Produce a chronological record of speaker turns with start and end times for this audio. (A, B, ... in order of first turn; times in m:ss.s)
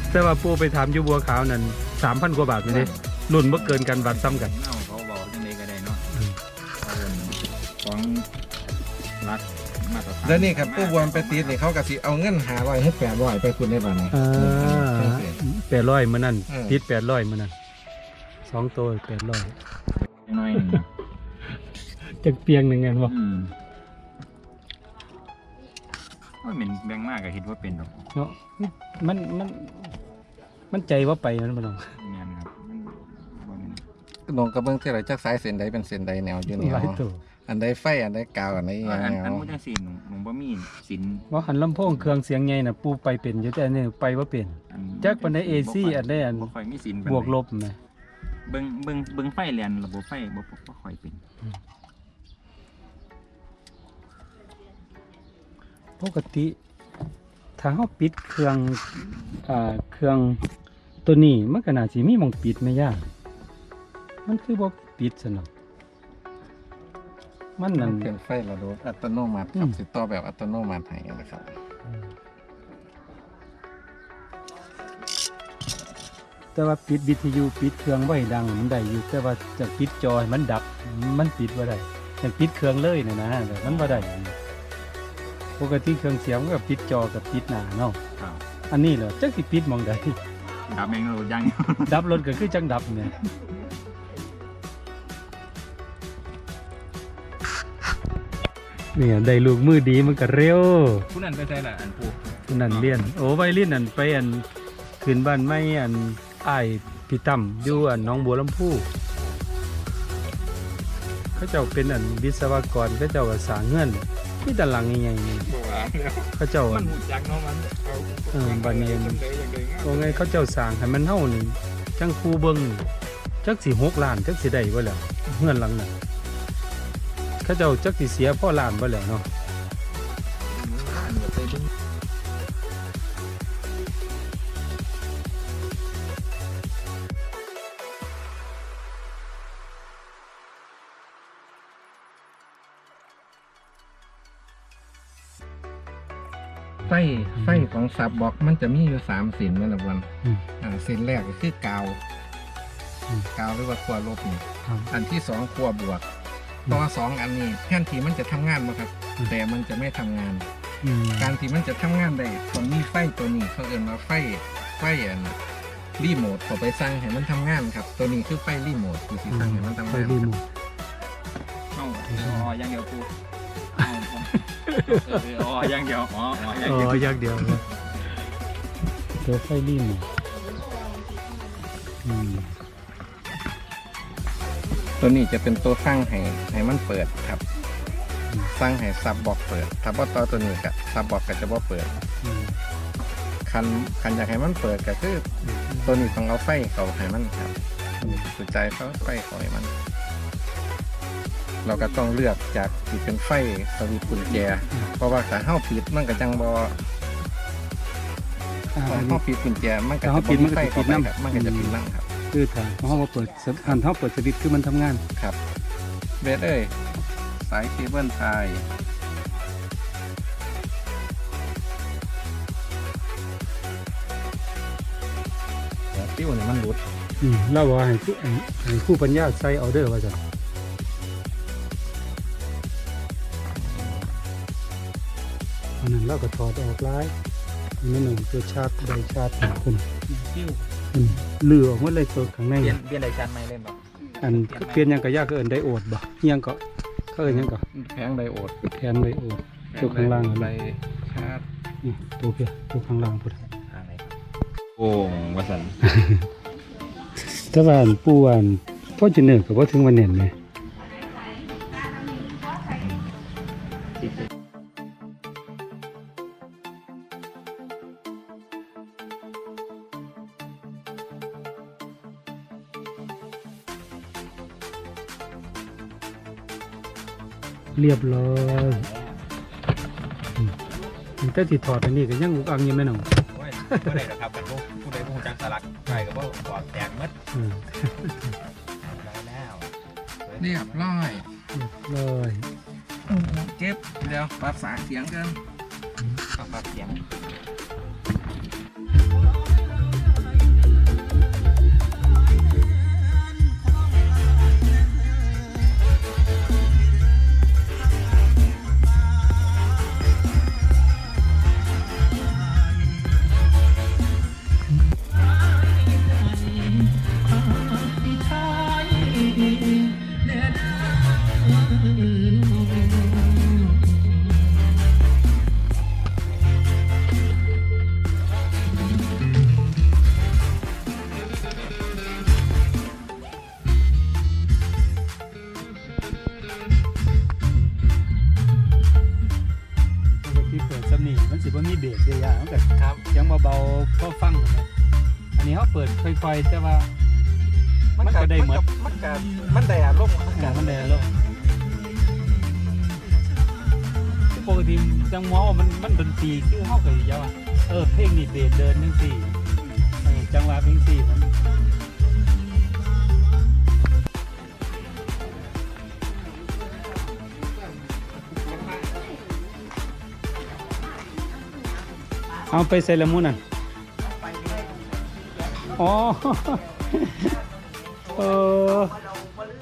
0:00.1-0:04.5 A
0:02.7-0:06.0 B
0:06.8-0:08.3 B
0:09.2-0:11.6 B
0:10.2-0:15.4 C
0:14.1-0:17.5 A
0:16.5-0:16.8 C
0:18.5-0:19.6 A
0:20.3-0:20.9 B
0:22.1-0:23.1 A
0:23.0-0:23.5 B
0:26.4-0:28.0 B
0:28.1-0:30.0 A
0:30.7-0:31.9 A
0:32.0-0:33.8 B
0:34.3-0:39.5 C
0:36.5-0:37.2 A
0:38.8-0:41.2 B
0:41.3-0:46.5 A
0:44.7-0:47.4 B
0:47.0-0:47.8 A
0:48.5-0:51.2 B
0:56.0-0:56.6 A
0:57.6-1:00.4 A
1:01.0-1:03.1 A
1:04.2-1:05.5 A
1:07.6-1:08.1 A
1:07.7-1:11.5 C
1:16.5-1:24.3 A
1:23.6-1:24.1 B
1:25.6-1:28.0 A
1:28.2-1:28.4 B
1:28.7-1:30.2 A
1:30.7-1:32.2 B
1:31.9-1:33.1 A
1:38.9-1:41.1 A
1:41.1-1:43.1 B
1:42.5-1:44.4 A
1:45.0-1:48.9 A
1:47.7-1:48.1 B
1:51.4-1:55.5 A
1:55.4-2:00.3 B
1:56.3-1:57.0 A
1:58.3-1:59.2 A
1:59.8-2:02.9 A
2:03.4-2:05.9 A
2:07.4-2:09.3 A
2:10.5-2:11.7 B
2:26.8-2:32.0 C
2:27.4-2:27.6 A
2:33.3-2:36.0 C
2:36.7-2:40.5 C
2:40.8-2:41.3 A
2:41.2-2:45.4 C
2:46.0-2:50.3 C
2:49.3-2:50.4 A
2:51.7-2:53.1 B
2:52.1-2:52.5 A
2:53.7-2:57.5 B
2:54.7-2:55.2 A
2:56.6-2:57.6 A
2:59.2-3:00.1 A
3:02.0-3:02.5 A
3:05.0-3:07.4 C
3:08.5-3:11.9 C
3:12.2-3:12.6 A
3:13.4-3:19.7 C
3:15.5-3:16.1 A
3:18.0-3:18.3 A
3:21.6-3:26.8 C
3:28.7-3:29.2 A
3:28.8-3:32.1 C
3:30.0-3:31.8 A
3:32.3-3:35.0 A
3:36.2-3:36.8 C
3:37.4-3:38.7 C
3:45.9-3:46.8 C
3:47.2-3:50.2 A
3:53.6-3:54.1 C
3:55.8-3:57.1 A
3:57.8-3:59.9 A
4:00.3-4:00.6 B
4:00.9-4:02.8 A
4:02.6-4:04.9 B
4:04.2-4:06.6 A
4:07.1-4:07.6 A
4:07.2-4:08.6 C
4:08.6-4:10.5 A
4:09.7-4:11.4 C
4:11.8-4:13.4 A
4:13.7-4:14.1 B
4:14.8-4:15.8 B
4:15.8-4:16.2 A
4:17.2-4:20.3 A
4:22.8-4:23.0 B
4:37.8-4:38.8 A
4:38.4-4:39.2 B
4:41.2-4:43.1 A
4:43.3-4:47.2 B
4:43.7-4:43.9 A
4:47.3-4:48.3 A
4:48.9-4:49.7 B
4:50.2-4:50.9 B
4:50.4-4:51.2 C
4:51.5-4:52.5 A
4:53.1-4:55.4 C
4:56.3-4:57.1 B
5:40.1-5:44.7 A
5:42.8-5:43.0 C
5:45.4-5:46.9 A
5:48.0-5:51.1 C
5:48.0-5:48.6 A
5:50.3-5:51.1 A
5:54.3-5:59.4 A
6:00.0-6:01.3 A
6:12.5-6:13.4 A
6:15.7-6:17.4 A
6:18.0-6:19.0 A